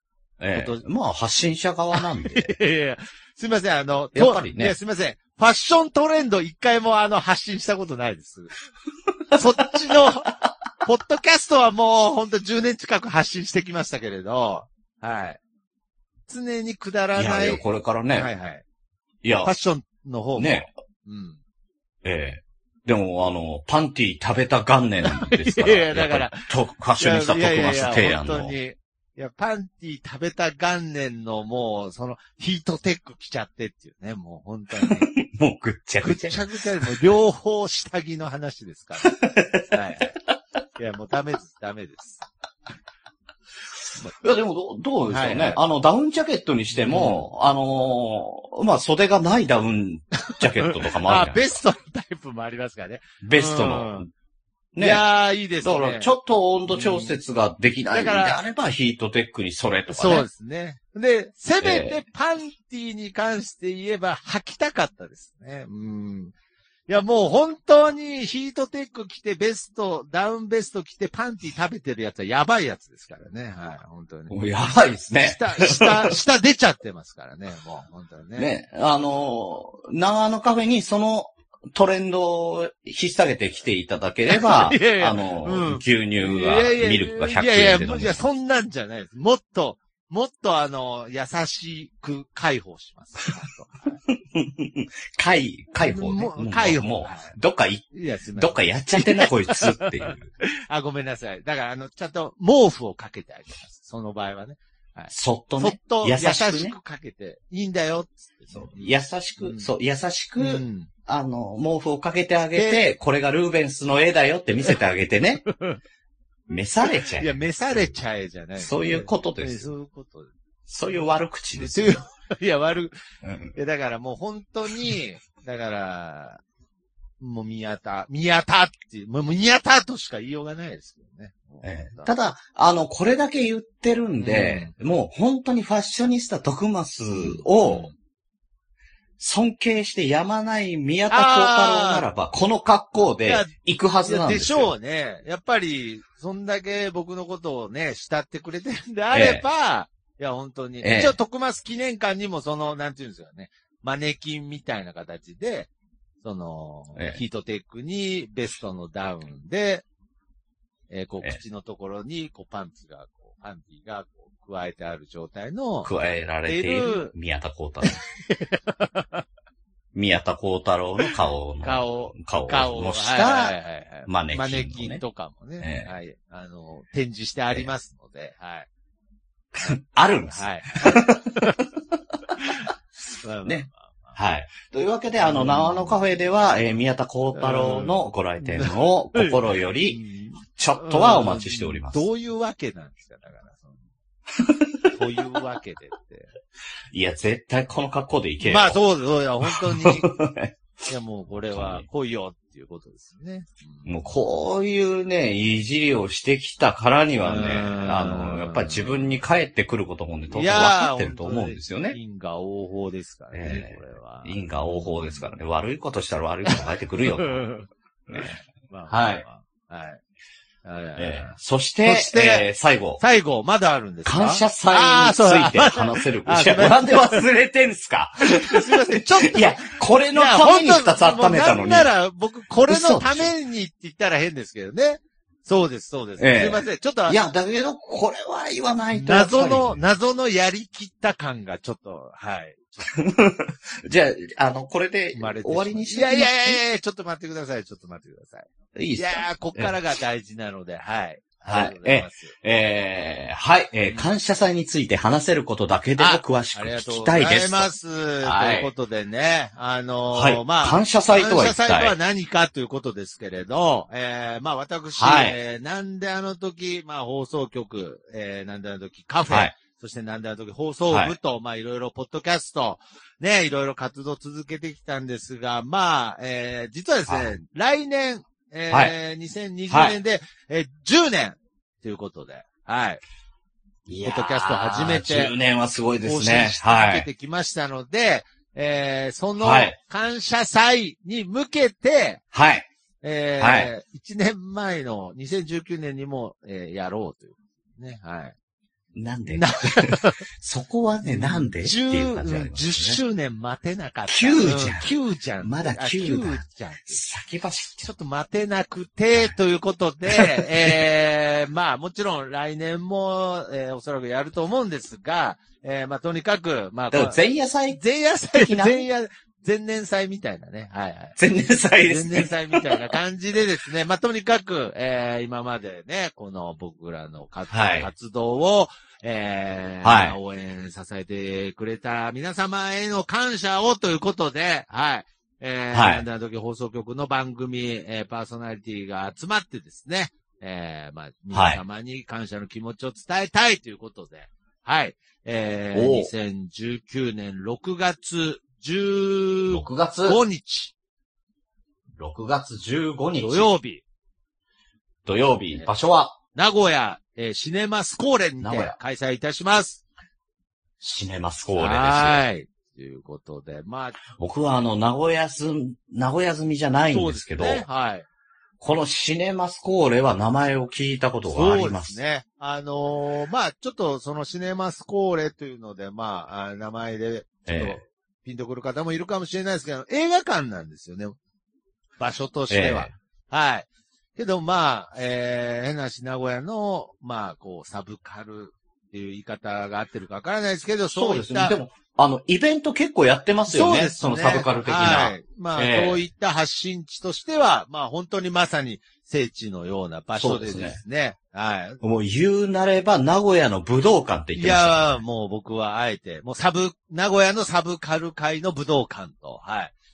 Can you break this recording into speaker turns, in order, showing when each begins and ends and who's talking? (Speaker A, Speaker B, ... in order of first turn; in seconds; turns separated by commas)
Speaker A: 0.4-2.5, Speaker B: 0.5-0.8, Speaker B: 1.9-8.5, Speaker A: 4.1-4.7, Speaker B: 9.3-15.4, Speaker B: 16.3-17.6, Speaker A: 17.1-18.3, Speaker B: 18.1-18.6, Speaker A: 19.2-19.5, Speaker B: 19.4-21.4, Speaker A: 20.4-20.7, Speaker A: 22.0-28.5, Speaker B: 25.1-35.1, Speaker A: 34.8-36.9, Speaker B: 36.0-40.1, Speaker A: 39.1-39.8, Speaker B: 40.8-42.2, Speaker A: 44.2-51.6, Speaker B: 45.1-45.6, Speaker B: 46.7-47.3, Speaker B: 50.3-54.0, Speaker A: 53.2-54.1, Speaker A: 54.7-55.0, Speaker B: 54.8-56.1, Speaker A: 55.6-60.2, Speaker B: 56.7-57.2, Speaker B: 57.9-58.4, Speaker B: 59.9-66.3, Speaker A: 61.6-62.0, Speaker B: 66.9-74.3, Speaker A: 74.3-76.1, Speaker B: 75.2-78.5, Speaker A: 78.4-88.2, Speaker B: 84.3-94.0, Speaker A: 94.1-100.3, Speaker B: 95.8-97.3, Speaker B: 97.9-109.7, Speaker A: 105.1-106.7, Speaker A: 108.5-115.5, Speaker B: 110.4-110.9, Speaker B: 112.5-112.9, Speaker B: 115.5-115.8, Speaker A: 116.5-117.9, Speaker B: 117.0-120.3, Speaker A: 118.6-119.7, Speaker A: 120.7-122.0, Speaker B: 121.5-123.0, Speaker A: 123.2-123.5, Speaker B: 123.5-126.4, Speaker B: 127.2-132.1, Speaker A: 131.6-137.9, Speaker B: 134.2-134.7, Speaker B: 137.1-137.9, Speaker A: 139.2-144.7, Speaker B: 141.1-142.1, Speaker B: 143.2-143.5, Speaker B: 144.0-155.7, Speaker A: 149.1-149.4, Speaker A: 150.8-151.2, Speaker B: 156.2-159.8, Speaker B: 160.9-165.9, Speaker A: 165.8-168.0, Speaker B: 166.4-167.1, Speaker B: 167.8-169.2, Speaker A: 169.9-175.0, Speaker B: 171.0-178.7, Speaker A: 175.6-175.9, Speaker A: 179.5-181.8, Speaker B: 179.6-181.6, Speaker B: 182.4-182.7, Speaker B: 183.2-184.1, Speaker A: 183.4-192.1, Speaker B: 185.2-186.0, Speaker B: 187.3-193.8, Speaker A: 194.4-194.9, Speaker B: 194.9-196.3, Speaker A: 196.9-198.8, Speaker B: 198.4-200.1, Speaker A: 199.4-200.6, Speaker B: 200.9-204.1, Speaker A: 201.5-201.8, Speaker A: 203.8-212.0, Speaker B: 207.2-209.1, Speaker B: 210.3-215.3, Speaker A: 213.3-217.4, Speaker B: 216.5-220.0, Speaker A: 218.9-219.2, Speaker B: 220.6-227.2, Speaker A: 221.0-223.0, Speaker A: 224.0-231.9, Speaker B: 228.3-237.2, Speaker A: 232.7-233.3, Speaker A: 236.2-239.8, Speaker B: 238.9-242.9, Speaker A: 242.9-246.6, Speaker B: 245.1-252.3, Speaker A: 248.7-249.7, Speaker A: 251.5-257.7, Speaker B: 253.8-254.1, Speaker B: 256.0-283.0, Speaker A: 258.2-258.7, Speaker A: 260.1-261.9, Speaker A: 265.0-265.4, Speaker A: 269.3-269.5, Speaker A: 270.9-271.1, Speaker A: 277.1-277.4, Speaker A: 279.7-279.9, Speaker A: 283.9-287.1, Speaker B: 284.0-285.3, Speaker B: 286.0-292.2, Speaker A: 289.4-289.8, Speaker A: 292.3-292.7, Speaker B: 293.0-298.3, Speaker A: 293.4-293.7, Speaker A: 298.9-303.0, Speaker B: 299.3-300.2, Speaker B: 301.0-307.0, Speaker A: 304.1-307.9, Speaker B: 307.8-317.2, Speaker A: 310.1-310.8, Speaker A: 316.9-317.8, Speaker B: 317.7-321.2, Speaker A: 318.3-318.8, Speaker A: 321.2-322.9, Speaker B: 321.9-350.7, Speaker A: 327.5-327.9, Speaker A: 329.8-330.2, Speaker A: 335.7-336.0, Speaker A: 341.3-341.6, Speaker A: 345.7-346.1, Speaker A: 349.5-350.2, Speaker A: 352.0-353.5, Speaker B: 353.2-353.8, Speaker A: 355.0-356.1, Speaker B: 356.3-359.8, Speaker A: 358.4-358.7, Speaker A: 360.8-362.2, Speaker B: 361.6-364.0, Speaker A: 364.2-367.6, Speaker B: 366.9-368.1, Speaker A: 368.6-372.0, Speaker B: 371.3-381.1, Speaker A: 377.5-377.8, Speaker B: 382.0-391.6, Speaker A: 382.5-382.9, Speaker A: 390.9-396.0, Speaker B: 393.5-401.8, Speaker A: 400.1-400.8, Speaker A: 401.8-405.0, Speaker B: 404.3-409.7